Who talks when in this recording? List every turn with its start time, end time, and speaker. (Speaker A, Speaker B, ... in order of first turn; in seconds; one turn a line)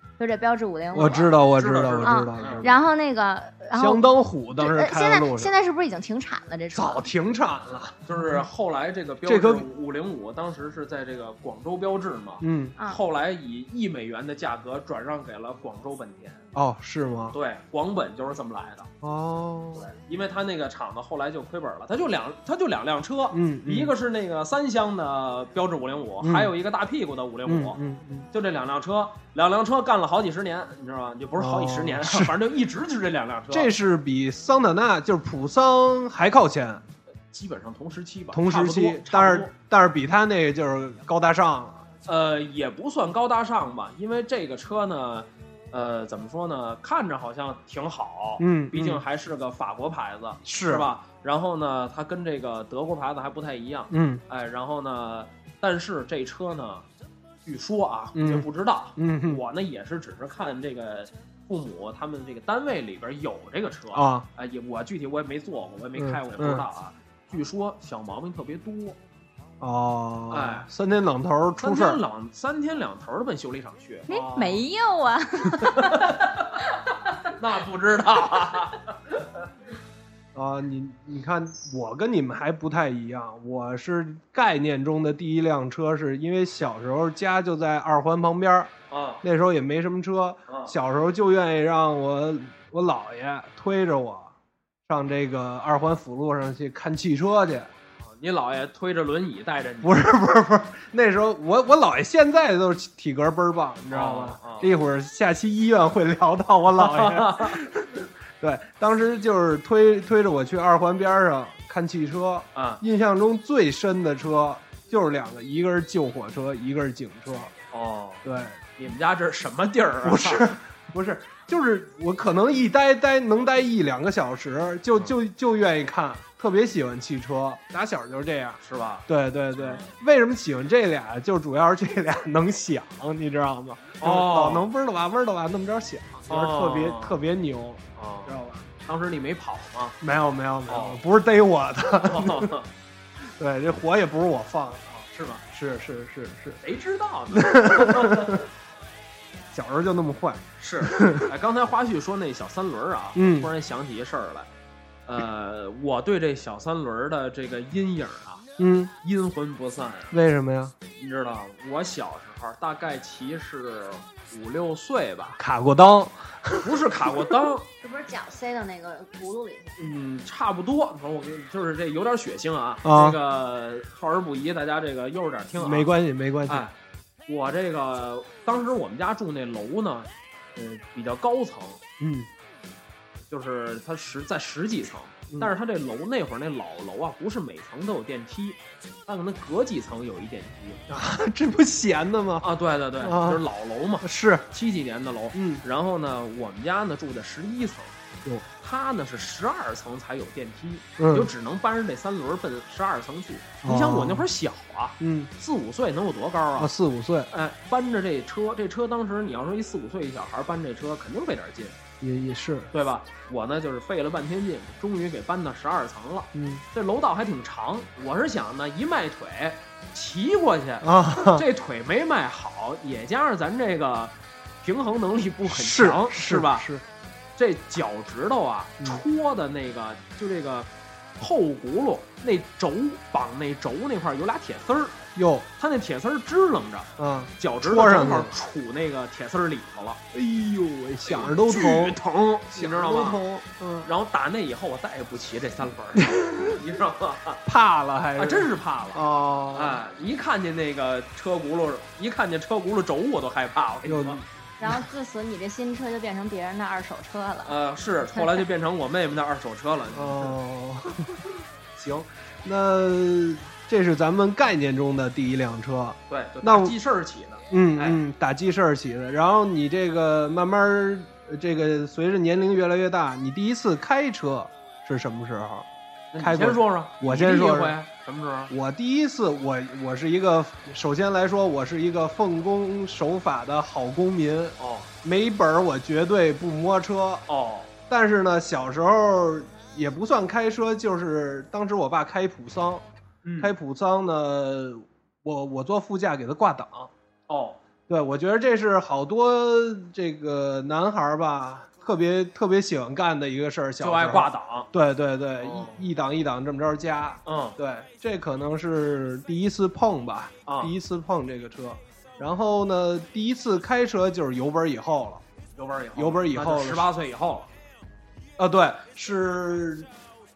Speaker A: 0.2-1.4
Speaker B: 0.9-2.7
Speaker C: 1.6-2.7
Speaker A: 2.0-7.1
Speaker B: 3.8-5.5
Speaker B: 6.8-8.4
Speaker C: 8.1-16.4
Speaker B: 9.2-9.7
Speaker B: 12.4-12.8
Speaker B: 16.5-17.4
Speaker C: 17.3-18.9
Speaker B: 19.0-19.9
Speaker C: 19.8-27.8
Speaker B: 23.3-23.9
Speaker B: 26.2-26.5
Speaker B: 27.5-28.3
Speaker C: 28.3-33.7
Speaker B: 31.4-32.4
Speaker B: 33.5-36.8
Speaker C: 37.3-39.5
Speaker B: 38.3-41.9
Speaker C: 42.0-56.9
Speaker B: 48.4-49.0
Speaker B: 50.5-50.9
Speaker B: 53.9-54.2
Speaker C: 57.5-69.0
Speaker B: 58.1-59.4
Speaker B: 63.9-64.3
Speaker B: 66.0-66.6
Speaker B: 69.6-72.0
Speaker C: 70.3-70.7
Speaker C: 71.6-74.6
Speaker A: 74.1-76.2
Speaker C: 75.6-79.4
Speaker B: 80.3-88.7
Speaker C: 88.9-89.2
Speaker B: 89.2-94.3
Speaker C: 90.5-90.7
Speaker B: 94.9-97.7
Speaker C: 98.0-100.0
Speaker B: 99.8-117.5
Speaker C: 103.9-104.7
Speaker C: 106.7-107.6
Speaker C: 112.5-112.8
Speaker C: 117.7-118.2
Speaker B: 118.2-118.6
Speaker C: 118.8-120.5
Speaker B: 120.0-138.7
Speaker C: 128.6-129.1
Speaker C: 129.6-129.9
Speaker C: 134.0-134.7
Speaker C: 136.3-137.2
Speaker C: 138.0-140.0
Speaker B: 140.0-142.5
Speaker C: 140.7-141.0
Speaker C: 142.0-142.7
Speaker B: 143.2-145.0
Speaker C: 145.0-145.4
Speaker B: 145.5-146.6
Speaker C: 146.6-148.5
Speaker B: 147.3-148.4
Speaker B: 149.5-151.3
Speaker C: 150.6-154.5
Speaker B: 153.2-153.5
Speaker C: 155.1-158.4
Speaker B: 158.6-158.9
Speaker C: 159.0-160.2
Speaker B: 160.1-160.7
Speaker C: 161.0-165.4
Speaker B: 165.4-167.4
Speaker C: 166.6-167.7
Speaker A: 167.8-169.8
Speaker C: 169.8-175.9
Speaker B: 172.8-173.2
Speaker B: 175.6-176.7
Speaker C: 176.5-176.7
Speaker C: 177.3-181.8
Speaker B: 182.0-182.3
Speaker C: 183.3-190.8
Speaker B: 190.9-193.4
Speaker C: 192.4-197.9
Speaker B: 194.0-194.5
Speaker B: 195.3-195.6
Speaker C: 198.6-206.7
Speaker B: 201.0-201.3
Speaker B: 203.6-204.3
Speaker B: 205.0-205.3
Speaker B: 206.6-207.3
Speaker C: 207.3-211.8
Speaker B: 212.0-212.7
Speaker C: 212.7-226.7
Speaker B: 216.3-216.6
Speaker B: 220.8-221.4
Speaker B: 225.5-226.8
Speaker C: 227.4-230.7
Speaker C: 231.2-235.0
Speaker B: 235.2-235.5
Speaker C: 235.6-240.0
Speaker B: 237.0-238.3
Speaker B: 240.1-242.0
Speaker C: 241.1-243.2
Speaker B: 242.5-243.9
Speaker C: 243.8-247.4
Speaker B: 246.0-246.6
Speaker B: 247.4-249.8
Speaker C: 248.2-249.0
Speaker C: 249.5-254.2
Speaker B: 253.8-254.8
Speaker A: 254.6-257.6
Speaker C: 257.4-260.4
Speaker A: 258.1-258.5
Speaker B: 259.9-266.8
Speaker C: 266.1-268.0
Speaker B: 267.5-275.7
Speaker C: 276.1-278.5
Speaker B: 276.2-277.8
Speaker B: 278.5-287.2
Speaker C: 284.6-284.9
Speaker C: 287.3-287.7
Speaker B: 287.9-292.9
Speaker C: 293.2-293.5
Speaker B: 293.4-296.9
Speaker C: 297.3-297.6
Speaker B: 297.9-315.2
Speaker C: 303.8-304.7
Speaker C: 305.4-305.8
Speaker C: 307.2-307.6
Speaker C: 310.5-310.7
Speaker C: 315.6-317.5
Speaker B: 316.0-316.9
Speaker B: 318.4-319.9